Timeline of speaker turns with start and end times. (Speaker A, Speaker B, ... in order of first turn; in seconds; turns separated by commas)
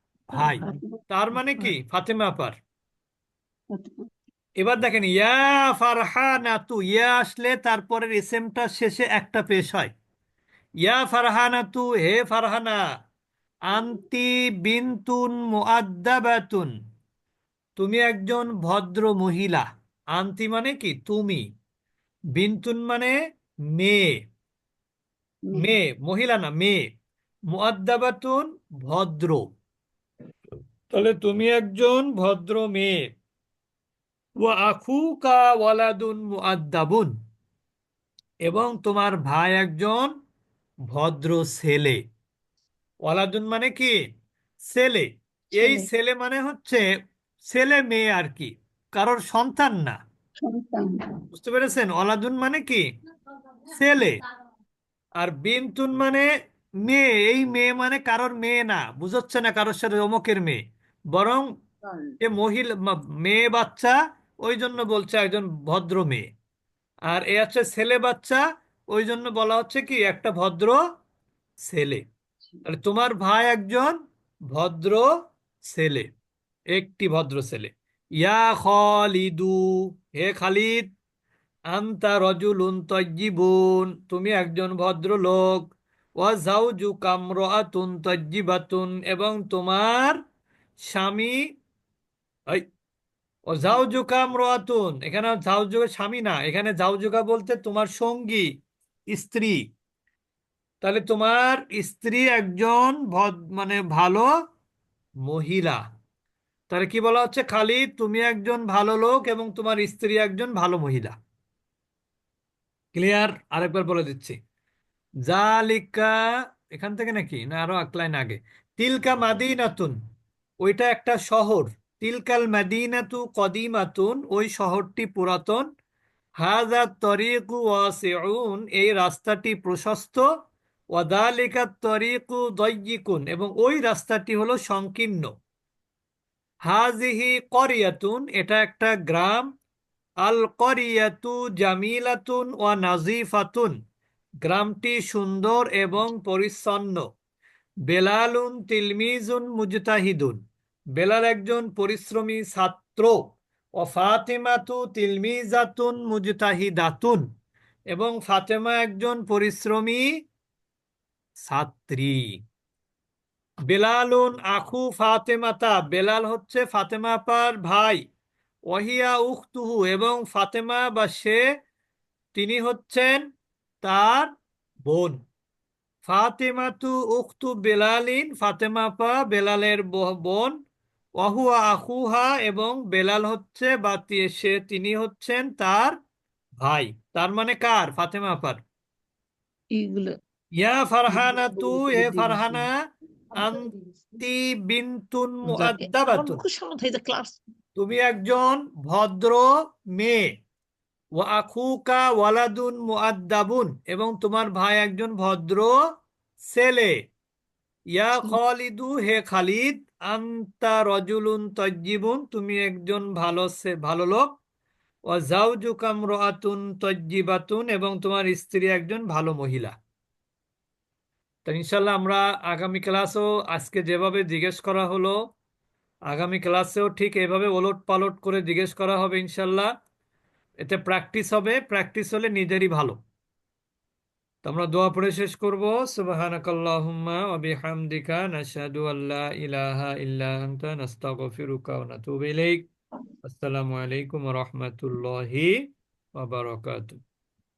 Speaker A: 0.3-2.5, Speaker B: 0.6-0.9, Speaker A: 4.6-9.9, Speaker A: 10.8-12.8, Speaker A: 13.7-16.7, Speaker A: 17.8-21.4, Speaker A: 22.4-23.1, Speaker A: 23.8-24.1, Speaker A: 25.5-26.8, Speaker A: 27.5-29.4, Speaker A: 30.9-33.0, Speaker A: 34.4-37.1, Speaker A: 38.5-40.1, Speaker A: 40.9-42.0, Speaker A: 43.0-44.0, Speaker A: 44.7-46.8, Speaker C: 45.6-45.8, Speaker A: 47.5-50.0, Speaker C: 50.4-51.0, Speaker A: 51.3-52.8, Speaker A: 53.7-54.2, Speaker A: 55.2-56.3, Speaker A: 56.9-60.6, Speaker A: 61.1-61.5, Speaker A: 62.2-66.2, Speaker A: 67.1-68.4, Speaker A: 68.9-70.8, Speaker A: 71.7-72.0, Speaker A: 72.7-74.0, Speaker A: 74.5-75.1, Speaker A: 75.7-76.1, Speaker A: 76.7-80.9, Speaker A: 81.7-90.2, Speaker A: 90.9-91.4, Speaker A: 93.5-98.5, Speaker A: 99.1-99.6, Speaker A: 100.8-104.3, Speaker A: 105.3-105.8, Speaker A: 106.7-111.2, Speaker A: 112.9-114.4, Speaker A: 115.3-116.1, Speaker A: 116.7-119.9, Speaker A: 120.6-125.6, Speaker A: 126.4-130.2, Speaker A: 130.9-135.3, Speaker A: 136.7-139.5, Speaker A: 140.2-143.7, Speaker A: 144.4-147.0, Speaker A: 147.9-150.4, Speaker A: 151.0-153.2, Speaker A: 153.8-157.2, Speaker A: 157.9-160.0, Speaker A: 161.5-162.2, Speaker A: 163.7-168.0, Speaker A: 168.7-171.4, Speaker A: 172.3-173.2, Speaker A: 173.8-174.3, Speaker A: 174.9-175.2, Speaker A: 176.1-180.6, Speaker A: 181.2-185.9, Speaker A: 186.6-188.6, Speaker B: 189.7-190.1, Speaker A: 190.6-192.7, Speaker C: 191.2-192.6, Speaker A: 193.3-196.4, Speaker B: 195.5-197.4, Speaker A: 197.8-199.5, Speaker A: 200.0-200.2, Speaker A: 201.2-205.8, Speaker A: 206.5-206.9, Speaker A: 207.9-214.3, Speaker A: 215.1-219.7, Speaker A: 221.5-225.2, Speaker A: 226.1-229.7, Speaker A: 230.6-233.0, Speaker A: 234.4-242.7, Speaker A: 243.2-245.6, Speaker A: 246.2-247.0